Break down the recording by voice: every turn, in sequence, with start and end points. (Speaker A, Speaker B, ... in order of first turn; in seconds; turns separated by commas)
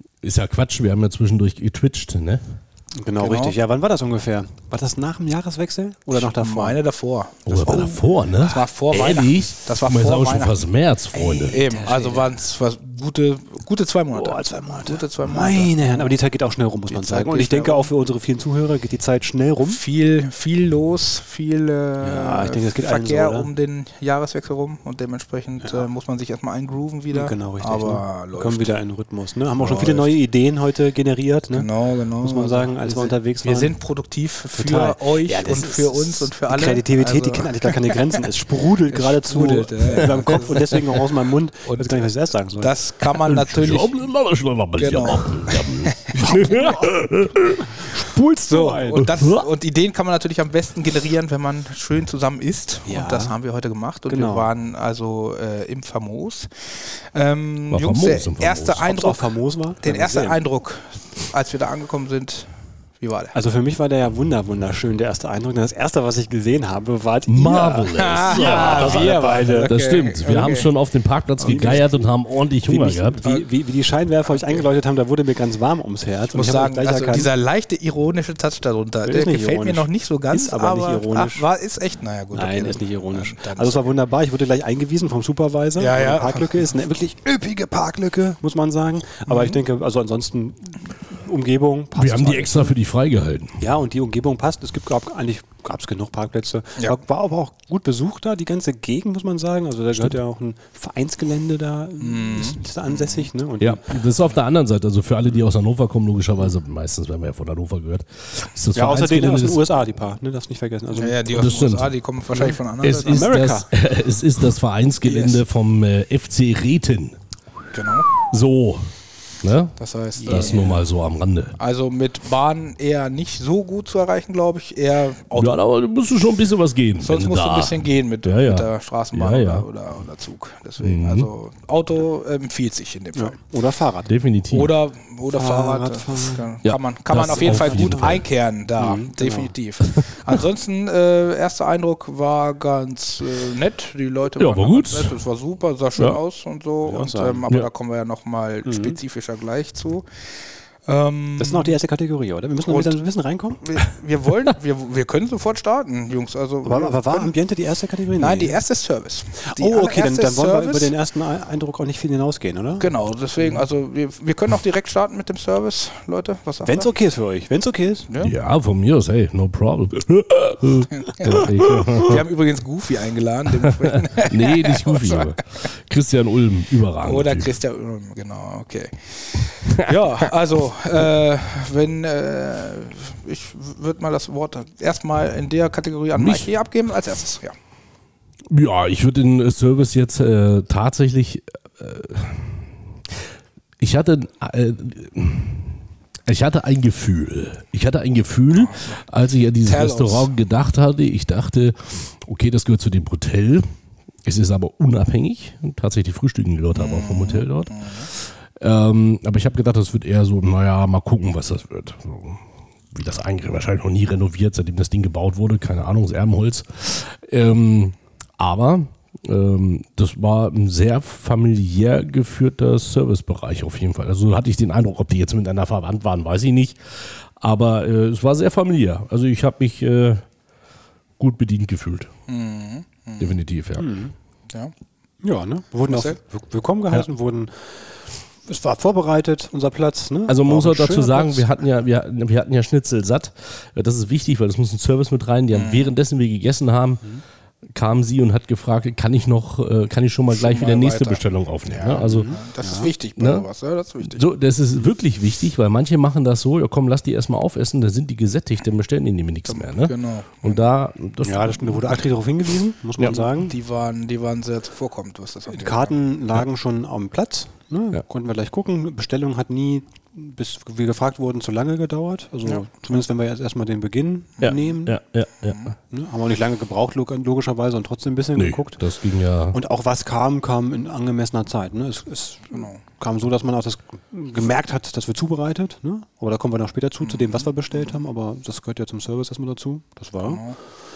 Speaker A: 0.2-2.4, Speaker B: 3.0-6.8, Speaker C: 3.2-3.5, Speaker C: 6.1-10.7, Speaker A: 7.5-11.6, Speaker B: 11.1-12.4, Speaker C: 11.5-16.1, Speaker B: 14.1-19.8, Speaker C: 16.9-17.9, Speaker C: 19.7-28.8, Speaker B: 22.0-23.5, Speaker B: 27.1-33.8, Speaker C: 29.6-30.1, Speaker C: 31.5-38.1, Speaker B: 34.5-42.7, Speaker C: 38.9-40.9, Speaker C: 41.7-44.0, Speaker A: 43.2-47.8, Speaker C: 44.8-46.9, Speaker B: 47.9-49.1, Speaker C: 48.5-59.3, Speaker A: 49.0-49.5, Speaker B: 52.9-53.4, Speaker B: 54.1-54.5, Speaker A: 57.7-58.9, Speaker B: 58.9-60.4, Speaker C: 59.8-63.4, Speaker B: 63.3-69.7, Speaker A: 67.3-73.2, Speaker C: 68.0-70.7, Speaker C: 71.4-71.8, Speaker B: 71.5-72.1, Speaker B: 72.6-77.3, Speaker C: 74.2-74.7, Speaker C: 76.3-83.9, Speaker B: 79.0-81.5, Speaker B: 82.3-92.8, Speaker C: 85.8-86.5, Speaker C: 89.3-89.6, Speaker A: 92.0-93.6, Speaker B: 93.6-103.9, Speaker A: 99.9-100.2, Speaker C: 102.0-103.3, Speaker A: 103.6-109.7, Speaker B: 108.7-111.3, Speaker C: 111.0-113.3, Speaker A: 111.3-112.0, Speaker A: 112.8-117.2, Speaker B: 113.1-113.7, Speaker C: 115.0-115.4, Speaker C: 117.7-118.1, Speaker A: 118.3-118.9, Speaker A: 119.4-121.6, Speaker C: 119.8-120.8, Speaker B: 120.2-120.8, Speaker C: 121.6-125.6, Speaker A: 125.3-129.7, Speaker C: 127.0-133.4, Speaker A: 130.8-131.3, Speaker B: 133.2-134.1, Speaker A: 134.1-134.7, Speaker C: 134.5-150.1, Speaker B: 135.3-136.5, Speaker A: 136.7-138.2, Speaker B: 137.2-138.2, Speaker B: 138.8-139.5, Speaker A: 139.9-140.3, Speaker A: 144.4-145.2, Speaker B: 146.8-147.5, Speaker B: 148.7-149.0, Speaker C: 150.9-151.8, Speaker B: 151.4-153.6, Speaker C: 152.7-153.0, Speaker C: 153.6-157.3, Speaker B: 156.7-158.6, Speaker C: 158.2-160.9, Speaker B: 159.4-163.6, Speaker C: 162.8-166.9, Speaker B: 166.7-168.1, Speaker A: 168.2-172.2, Speaker C: 171.0-175.3, Speaker A: 173.6-177.6, Speaker C: 177.0-187.6, Speaker A: 179.7-180.0, Speaker A: 186.1-186.5, Speaker A: 188.5-193.2, Speaker A: 193.8-203.7, Speaker C: 198.5-199.0, Speaker C: 199.6-200.3, Speaker A: 204.2-230.2, Speaker C: 206.7-208.1, Speaker A: 231.2-232.1, Speaker C: 232.3-233.4, Speaker A: 233.2-233.9, Speaker B: 233.8-234.1, Speaker B: 235.2-237.9, Speaker C: 235.9-236.2, Speaker B: 238.5-241.5, Speaker A: 240.3-247.1, Speaker C: 245.5-245.9, Speaker A: 247.7-252.3, Speaker C: 250.3-254.2, Speaker B: 252.0-252.9, Speaker A: 253.2-253.5, Speaker A: 254.0-261.9, Speaker C: 259.5-260.6, Speaker B: 261.2-263.6, Speaker C: 263.1-266.0, Speaker B: 265.5-275.0, Speaker A: 274.4-275.6, Speaker C: 275.4-275.7, Speaker B: 275.9-278.9, Speaker A: 278.4-279.6, Speaker B: 279.5-290.5, Speaker C: 282.5-282.8, Speaker C: 287.1-287.4, Speaker C: 290.2-290.6